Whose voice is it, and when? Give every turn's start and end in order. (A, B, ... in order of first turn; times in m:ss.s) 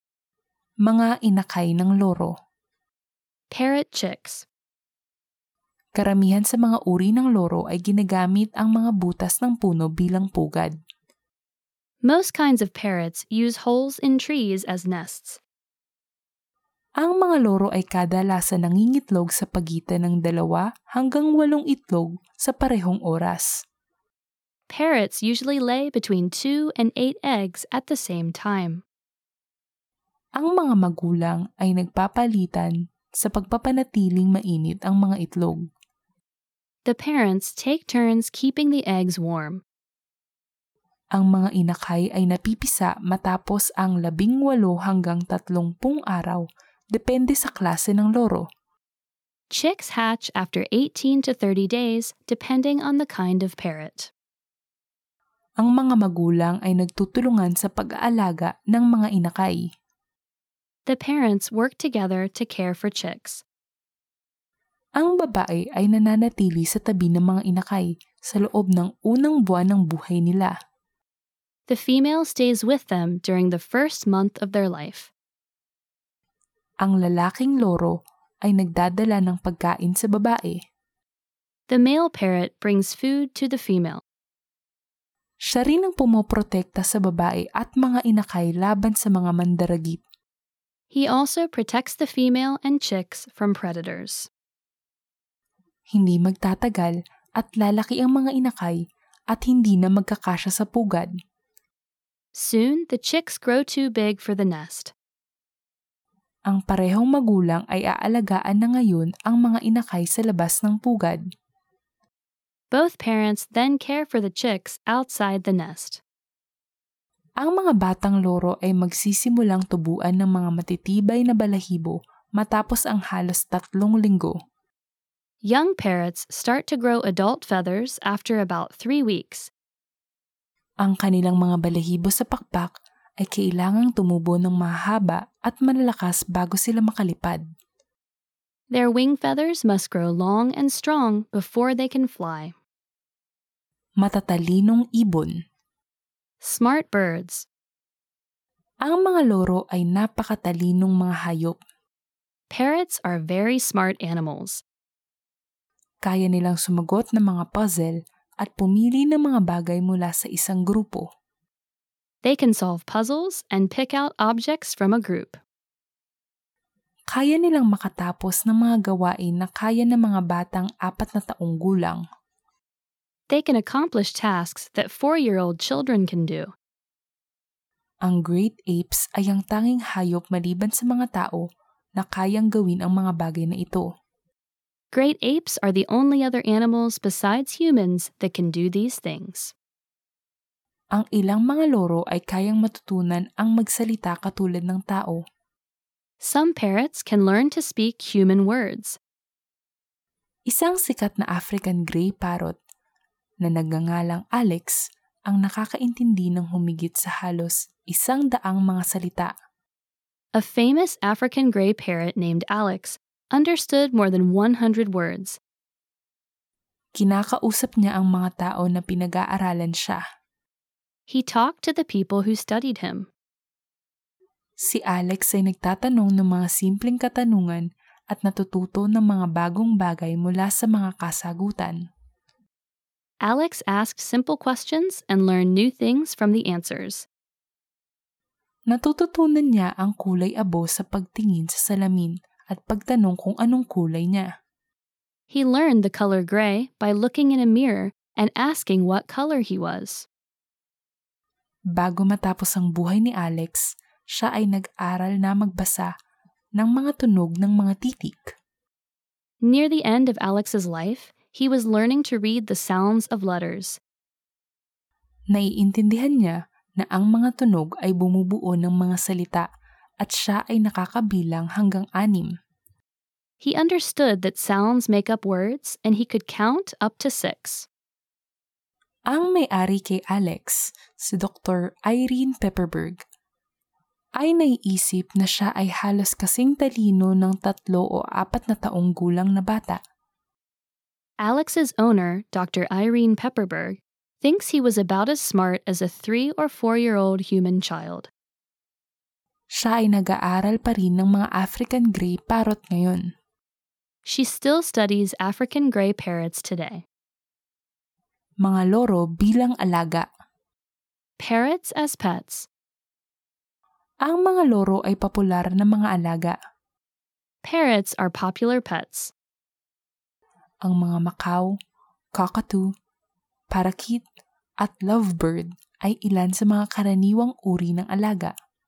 0:00.8-0:02.3 A
0:03.5-0:04.4 B
0:06.0-0:10.7 A
0:12.0-0:15.4 B
0:17.0-0:23.6 A
0:24.7-0:28.8 B
0:30.4-0:35.6 A
0:36.8-0:39.6 B
0:41.2-0:48.4 A
0:49.5-0:54.1 B
0:55.6-0:59.6 A
1:00.8-1:03.4 B
1:05.0-1:10.5 A
1:11.7-1:15.1 B
1:16.8-1:17.9 A
1:18.4-1:20.6 A
1:21.7-1:24.0 B
1:25.5-1:30.0 A
1:30.9-1:34.3 B
1:35.9-1:38.8 A
1:39.3-1:41.1 A
1:42.3-1:44.9 B
1:46.5-1:51.2 A
1:52.7-1:56.0 B
1:57.4-2:04.3 A
2:05.4-2:09.5 B
2:10.8-2:17.4 A
2:18.7-2:22.5 B
2:24.0-2:25.3 A
2:26.4-2:27.5 B
2:28.8-2:31.6 A
2:32.5-2:34.6 B
2:36.0-2:41.0 A
2:42.2-2:45.4 B
2:47.1-2:52.0 A
2:53.3-2:56.5 B
2:58.1-3:01.4 A
3:02.0-3:03.8 A
3:04.9-3:09.5 B
3:11.0-3:15.2 A
3:16.2-3:19.0 B
3:20.5-3:22.6 A
3:23.4-3:29.3 A
3:30.3-3:35.4 B
3:37.0-3:40.0 A
3:41.1-3:43.1 B
3:44.6-3:51.8 A
3:53.2-3:57.1 B
3:58.7-4:04.3 A
4:05.3-4:10.1 B
4:11.8-4:15.9 A
4:16.6-4:18.2 A
4:19.4-4:23.8 B
4:25.3-4:29.4 A
4:30.0-4:32.3 A
4:33.4-4:37.7 B
4:39.1-4:43.0 A
4:44.2-4:49.8 A
4:51.2-4:58.1 B
4:59.6-5:03.0 A
5:04.0-5:06.8 B
5:08.4-5:10.1 A
5:11.2-5:12.5 B
5:14.0-5:16.4 A
5:17.4-5:19.1 B
5:20.6-5:21.5 A
5:22.2-5:22.6 A
5:23.5-5:24.0 A
5:24.6-5:28.3 A